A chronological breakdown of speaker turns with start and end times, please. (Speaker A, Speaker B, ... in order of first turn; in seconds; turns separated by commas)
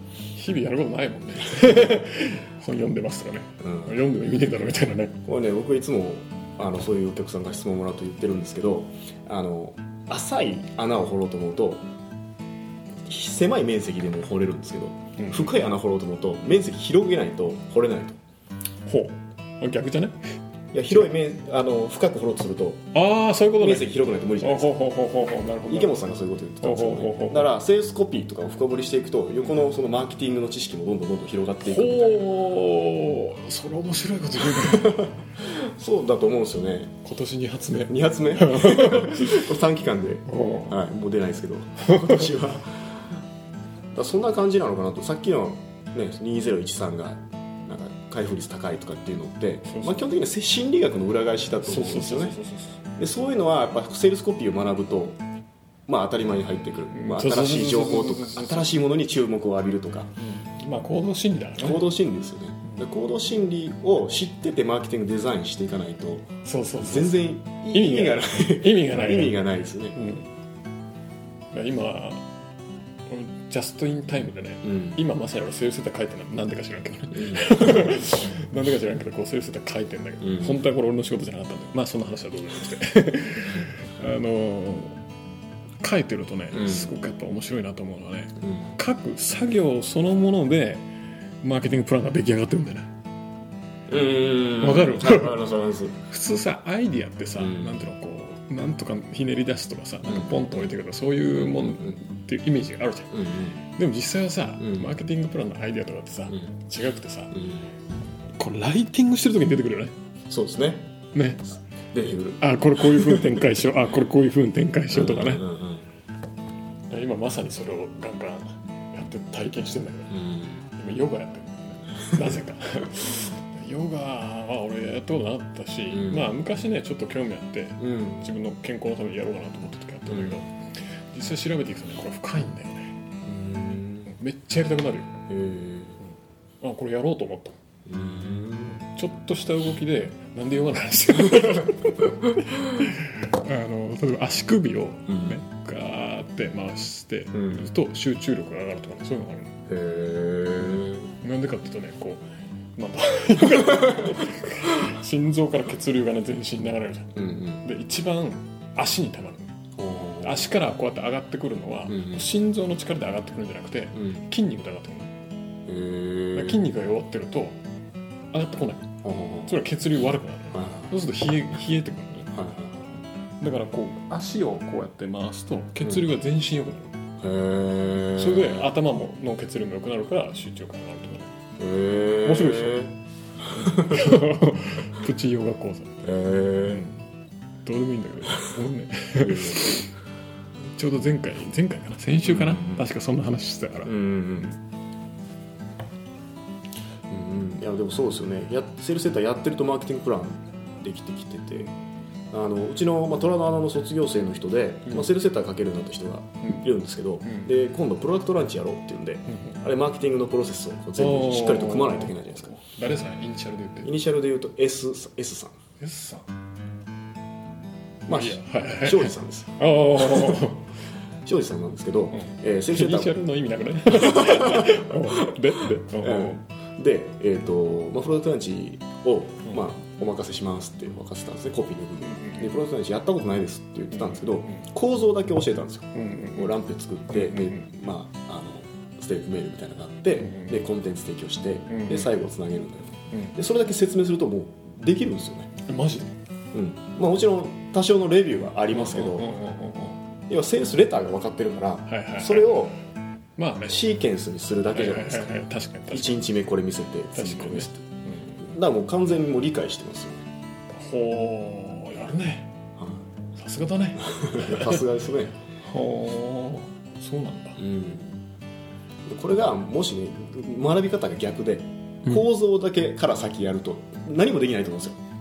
Speaker A: 0.3-5.2, Speaker B: 3.6-4.0, Speaker B: 5.2-11.9, Speaker B: 13.1-18.2, Speaker A: 15.2-15.6, Speaker A: 18.9-20.3, Speaker B: 20.7-22.9, Speaker A: 22.9-26.0, Speaker B: 23.6-24.7, Speaker B: 25.7-32.3, Speaker A: 26.6-27.5, Speaker A: 31.6-35.1, Speaker B: 34.5-36.9, Speaker A: 37.0-39.5, Speaker B: 37.9-43.1, Speaker A: 40.3-40.7, Speaker A: 41.8-42.2, Speaker B: 43.9-52.4, Speaker A: 49.7-50.0, Speaker A: 51.6-52.8, Speaker B: 53.0-55.2, Speaker B: 55.9-60.1, Speaker A: 56.9-58.8, Speaker A: 60.2-61.9, Speaker B: 61.6-70.0, Speaker A: 66.5-67.2, Speaker A: 67.7-69.4, Speaker A: 70.0-70.3, Speaker A: 71.5-72.3, Speaker A: 73.1-85.0, Speaker B: 74.7-75.0, Speaker B: 77.1-78.0, Speaker B: 80.2-80.6, Speaker A: 85.8-90.9, Speaker B: 86.5-86.9, Speaker B: 88.4-88.7, Speaker A: 91.4-92.9, Speaker B: 93.9-96.0, Speaker A: 94.6-95.4, Speaker A: 96.0-107.5, Speaker B: 97.4-97.8, Speaker B: 100.1-100.7, Speaker B: 101.4-102.0, Speaker B: 103.1-103.6, Speaker B: 104.6-104.9, Speaker B: 107.3-107.6, Speaker A: 108.4-110.0, Speaker B: 110.3-110.9, Speaker A: 111.1-111.5, Speaker B: 111.9-113.4, Speaker A: 112.4-115.5, Speaker B: 114.9-115.9, Speaker A: 116.9-133.0, Speaker B: 120.1-120.6, Speaker B: 125.9-126.3, Speaker B: 127.8-128.2, Speaker B: 130.1-130.4, Speaker B: 133.2-134.1, Speaker A: 134.1-135.2, Speaker B: 135.3-136.0, Speaker A: 136.6-137.6, Speaker B: 137.9-138.8, Speaker A: 138.7-149.6, Speaker B: 145.1-145.4, Speaker B: 147.3-147.7, Speaker B: 149.7-151.1, Speaker A: 150.7-152.2, Speaker A: 152.8-159.5, Speaker B: 153.6-154.1, Speaker B: 157.2-157.6, Speaker B: 159.8-160.4, Speaker A: 160.2-165.1, Speaker B: 161.9-162.2, Speaker B: 164.0-164.2, Speaker B: 165.7-166.6, Speaker A: 166.3-167.6, Speaker A: 168.3-172.3, Speaker B: 169.0-169.6, Speaker B: 170.5-170.9, Speaker B: 172.3-172.8, Speaker A: 173.4-176.9, Speaker B: 177.2-178.7, Speaker A: 178.1-181.3, Speaker B: 181.6-184.2, Speaker A: 182.2-182.9, Speaker A: 183.5-186.1, Speaker B: 186.0-186.9, Speaker A: 186.6-187.0, Speaker A: 187.7-189.9, Speaker B: 189.2-189.8, Speaker A: 190.7-193.9, Speaker B: 192.2-192.9, Speaker B: 193.8-194.5, Speaker B: 197.1-201.7, Speaker B: 202.3-212.5, Speaker A: 209.3-209.6, Speaker A: 211.0-213.9, Speaker B: 213.8-215.6, Speaker A: 215.8-216.3, Speaker B: 218.1-220.4, Speaker A: 218.1-220.7, Speaker B: 221.2-223.2, Speaker A: 222.1-226.4, Speaker B: 223.9-225.3, Speaker B: 226.0-245.5, Speaker A: 232.0-232.6, Speaker A: 233.9-234.7, Speaker A: 235.9-236.5, Speaker A: 237.1-237.7, Speaker A: 240.2-240.6, Speaker A: 241.7-242.1, Speaker A: 245.7-246.1, Speaker B: 246.5-249.3, Speaker A: 248.7-250.0, Speaker B: 250.3-252.8, Speaker A: 251.9-252.7, Speaker A: 253.4-253.8, Speaker B: 253.7-255.3, Speaker A: 254.7-256.2, Speaker B: 255.9-257.8, Speaker A: 257.1-258.4, Speaker B: 258.4-260.3, Speaker A: 260.7-262.5, Speaker B: 262.8-263.1, Speaker A: 263.4-264.8, Speaker B: 264.0-265.4, Speaker A: 265.6-267.6, Speaker B: 267.6-268.2, Speaker B: 269.1-275.0